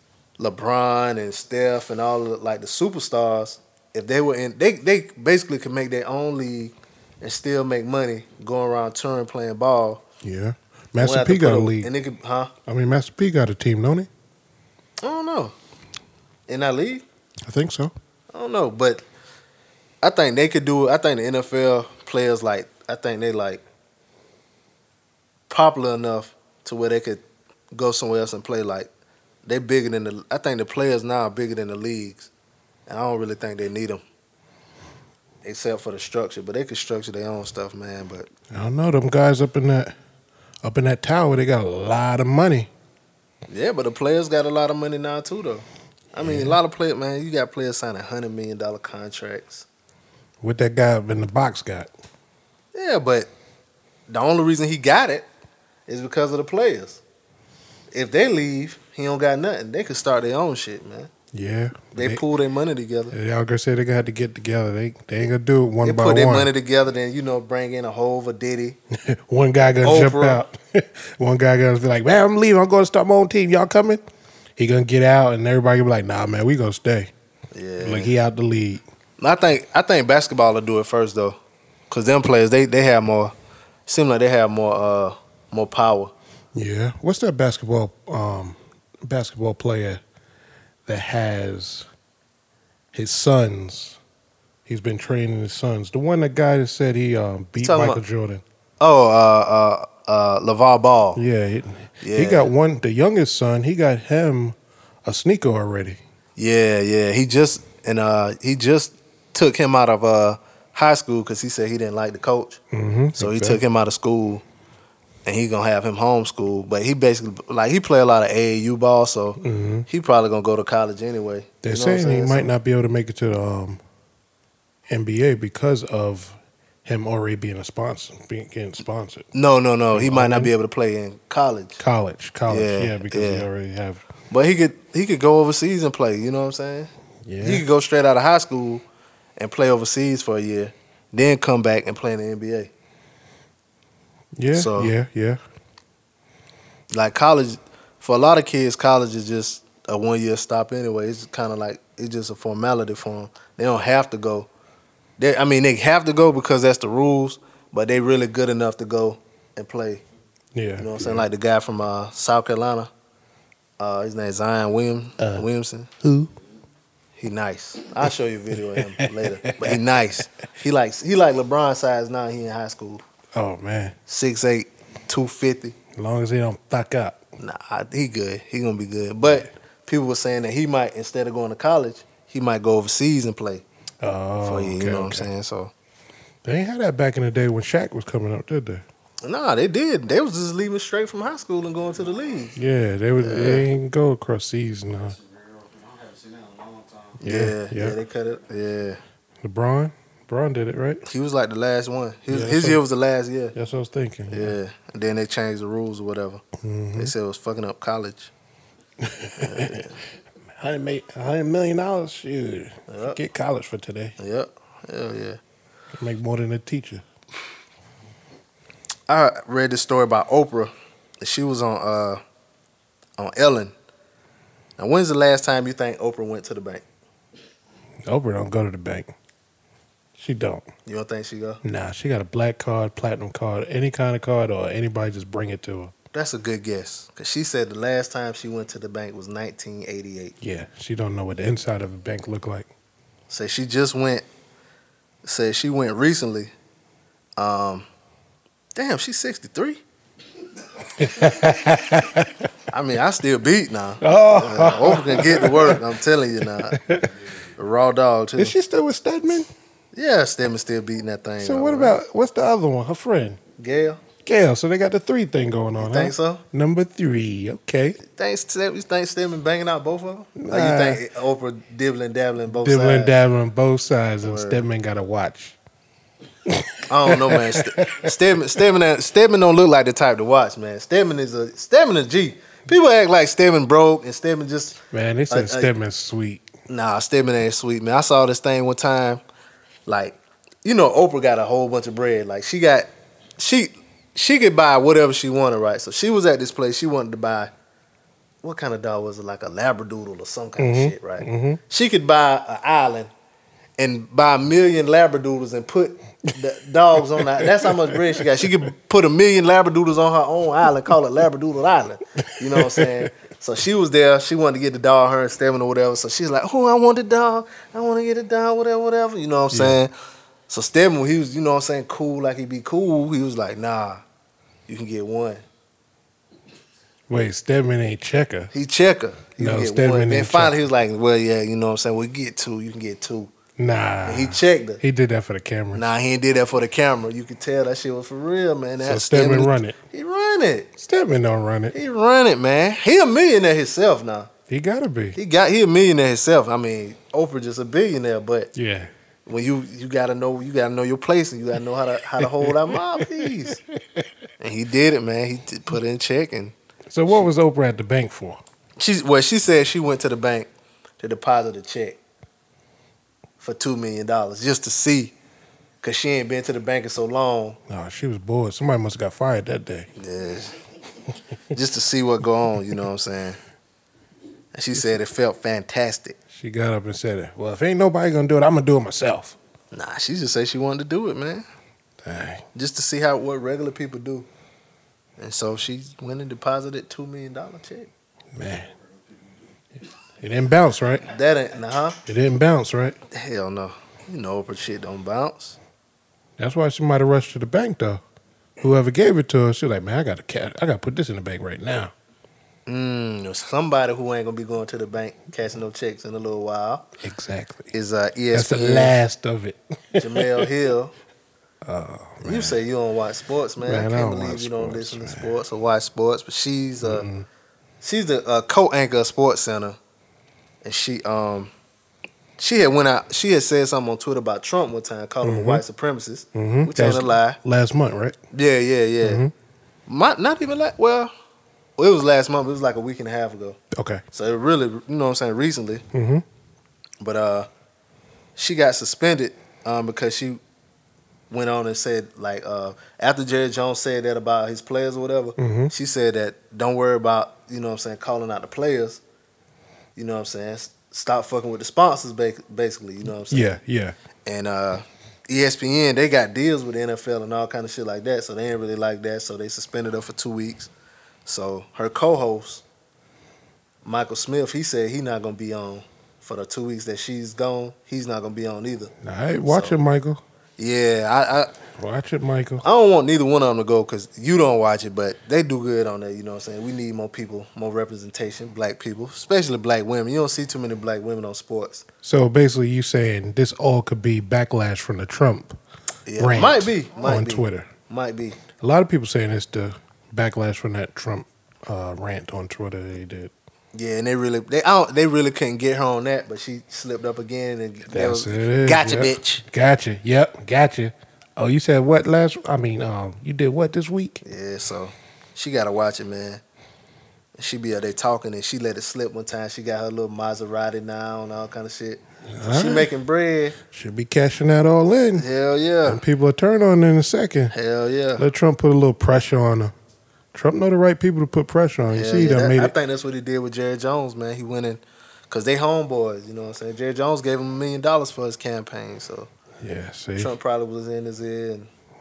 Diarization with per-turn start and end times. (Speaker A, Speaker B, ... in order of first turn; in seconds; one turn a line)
Speaker A: 0.4-10.0
Speaker B: 10.2-11.9
Speaker A: 11.0-12.5
Speaker B: 12.7-14.1
Speaker A: 15.0-15.5
Speaker A: 16.5-17.0
Speaker B: 17.4-17.9
Speaker A: 18.3-19.0
Speaker A: 20.0-23.6
Speaker A: 25.5-28.9
Speaker A: 29.5-32.3
Speaker A: 32.9-34.0
Speaker A: 35.4-38.3
Speaker B: 38.5-40.0
Speaker B: 40.6-42.7
Speaker A: 43.5-49.7
Speaker B: 46.2-46.6
Speaker B: 50.4-51.9
Speaker A: 52.7-53.3
Speaker A: 54.1-55.3
Speaker A: 55.9-57.0
Speaker A: 57.9-61.1
Speaker B: 61.3-62.2
Speaker A: 62.0-63.1
Speaker B: 63.1-66.5
Speaker A: 65.8-68.8
Speaker B: 68.9-74.0
Speaker A: 69.8-70.4
Speaker B: 74.6-77.1
Speaker A: 77.5-78.1
Speaker B: 77.8-78.8
Speaker A: 79.2-81.4
Speaker A: 81.9-83.3
Speaker A: 83.9-86.1
Speaker B: 86.5-90.0
Speaker B: 90.9-91.9
Speaker B: 92.9-94.0
Speaker B: 94.7-98.4
Speaker A: 97.6-98.0
Speaker A: 98.8-101.2
Speaker B: 101.2-106.0
Speaker A: 102.0-102.5
Speaker A: 106.4-112.6
Speaker B: 112.7-113.6
Speaker A: 113.2-114.4
Speaker A: 115.3-122.5
Speaker B: 119.4-119.9
Speaker B: 121.6-123.8
Speaker B: 124.9-129.3
Speaker A: 129.3-131.8
Speaker B: 129.9-130.5
Speaker B: 131.8-134.0
Speaker A: 132.5-133.5
Speaker A: 134.3-138.8
Speaker B: 137.2-137.6
Speaker A: 139.4-142.7
Speaker B: 144.4-145.4
Speaker A: 144.5-144.9
Speaker A: 146.9-154.5
Speaker A: 155.2-160.0
Speaker B: 160.5-161.3
Speaker A: 160.8-162.9
Speaker A: 163.8-165.9
Speaker B: 165.2-165.5
Speaker B: 166.0-166.3
Speaker A: 167.2-173.0
Speaker B: 168.7-169.8
Speaker B: 173.3-174.0
Speaker A: 174.1-175.8
Speaker B: 175.9-177.2
Speaker A: 177.4-183.7
Speaker B: 184.0-185.3
Speaker A: 184.4-185.7
Speaker B: 186.4-188.8
Speaker A: 189.2-192.5
Speaker C: 191.9-192.5
Speaker B: 192.6-195.2
Speaker A: 193.2-193.7
Speaker C: 194.9-197.3
Speaker B: 197.2-198.0
Speaker A: 197.2-199.0
Speaker B: 199.4-201.0
Speaker A: 201.0-203.6
Speaker B: 202.3-202.8
Speaker B: 203.6-204.5
Speaker A: 204.3-206.4
Speaker B: 206.6-207.1
Speaker A: 207.0-208.3
Speaker B: 209.0-209.8
Speaker A: 209.4-210.0
Speaker B: 210.6-214.2
Speaker A: 212.9-213.2
Speaker A: 214.2-215.4
Speaker B: 215.9-217.0
Speaker A: 219.1-222.2
Speaker A: 223.2-223.7
Speaker A: 224.8-226.8
Speaker B: 228.1-229.1
Speaker B: 230.2-230.7
Speaker A: 230.9-231.6
Speaker B: 231.6-235.9
Speaker A: 236.1-240.3
Speaker B: 240.4-242.7
Speaker A: 243.3-244.2
Speaker A: 245.2-246.5
Speaker A: 247.4-247.9
Speaker A: 248.8-249.8
Speaker B: 251.0-252.5
Speaker A: 252.7-256.8
Speaker B: 254.0-255.8
Speaker B: 256.6-257.1
Speaker A: 257.6-258.5
Speaker B: 258.4-259.5
Speaker A: 259.9-261.9
Speaker B: 261.4-263.4
Speaker A: 263.6-264.0
Speaker B: 264.2-268.0
Speaker A: 265.8-266.4
Speaker A: 268.0-273.1
Speaker B: 270.4-271.0
Speaker B: 272.6-275.6
Speaker A: 274.2-274.6
Speaker B: 276.5-278.1
Speaker A: 276.9-284.8
Speaker B: 284.9-286.5
Speaker A: 285.3-285.7
Speaker A: 286.7-289.2
Speaker A: 289.9-297.5
Speaker A: 298.4-303.1
Speaker B: 300.6-301.6
Speaker A: 303.8-319.9
Speaker B: 307.0-308.2
Speaker B: 312.4-313.1
Speaker B: 319.5-319.8
Speaker A: 320.5-324.0
Speaker A: 324.7-325.4
Speaker B: 327.1-328.5
Speaker A: 328.5-333.3
Speaker B: 329.4-330.6
Speaker B: 333.6-335.9
Speaker A: 334.1-334.8
Speaker A: 335.7-340.7
Speaker B: 338.8-339.8
Speaker B: 340.8-341.8
Speaker A: 341.7-344.3
Speaker B: 344.5-345.2
Speaker A: 345.2-348.5
Speaker B: 348.6-348.9
Speaker A: 349.3-353.6
Speaker B: 352.2-354.1
Speaker A: 354.4-356.5
Speaker B: 356.9-358.4
Speaker A: 358.8-360.5
Speaker A: 361.0-362.0
Speaker A: 363.4-365.1
Speaker A: 365.8-367.6
Speaker B: 367.7-369.9
Speaker A: 370.0-370.6
Speaker A: 371.5-373.4
Speaker A: 374.5-376.2
Speaker B: 376.3-379.4
Speaker A: 379.7-381.4
Speaker B: 382.0-382.4
Speaker A: 382.5-384.3
Speaker A: 385.2-387.9
Speaker B: 388.4-388.7
Speaker B: 390.2-391.1
Speaker A: 391.0-392.0
Speaker B: 392.1-393.0
Speaker A: 393.1-395.6
Speaker B: 396.4-398.0
Speaker B: 398.6-401.9
Speaker A: 402.7-406.9
Speaker B: 407.0-407.7
Speaker A: 407.7-409.0
Speaker B: 408.3-410.5
Speaker A: 410.0-410.9
Speaker B: 411.6-412.6
Speaker A: 412.2-417.1
Speaker B: 413.6-415.4
Speaker B: 416.8-417.3
Speaker A: 417.8-419.8
Speaker A: 420.6-421.5
Speaker A: 422.4-427.4
Speaker B: 425.2-425.6
Speaker B: 426.4-428.2
Speaker A: 428.3-429.2
Speaker B: 429.0-429.3
Speaker A: 429.9-431.1
Speaker A: 431.8-433.6
Speaker B: 433.7-434.0
Speaker A: 434.1-435.8
Speaker B: 435.9-436.2
Speaker A: 437.0-437.5
Speaker A: 438.4-440.4
Speaker A: 441.3-449.0
Speaker B: 445.4-445.7
Speaker A: 450.0-453.6
Speaker B: 453.3-454.0
Speaker A: 454.3-460.7
Speaker A: 461.3-462.6
Speaker A: 463.9-468.9
Speaker B: 469.0-470.2
Speaker A: 469.5-469.8
Speaker A: 470.6-471.6
Speaker B: 471.8-472.6
Speaker A: 472.6-481.9
Speaker B: 482.0-485.6
Speaker A: 486.1-488.4
Speaker B: 486.2-487.7
Speaker B: 488.6-493.3
Speaker A: 493.7-499.4
Speaker B: 497.9-504.2
Speaker A: 504.2-506.4
Speaker A: 507.4-513.6
Speaker B: 512.3-512.9
Speaker B: 513.7-515.2
Speaker A: 515.2-516.0
Speaker B: 515.9-517.5
Speaker A: 517.5-518.2
Speaker B: 518.2-519.7
Speaker B: 520.3-522.7
Speaker A: 521.9-529.3
Speaker B: 529.6-530.3
Speaker A: 530.2-531.7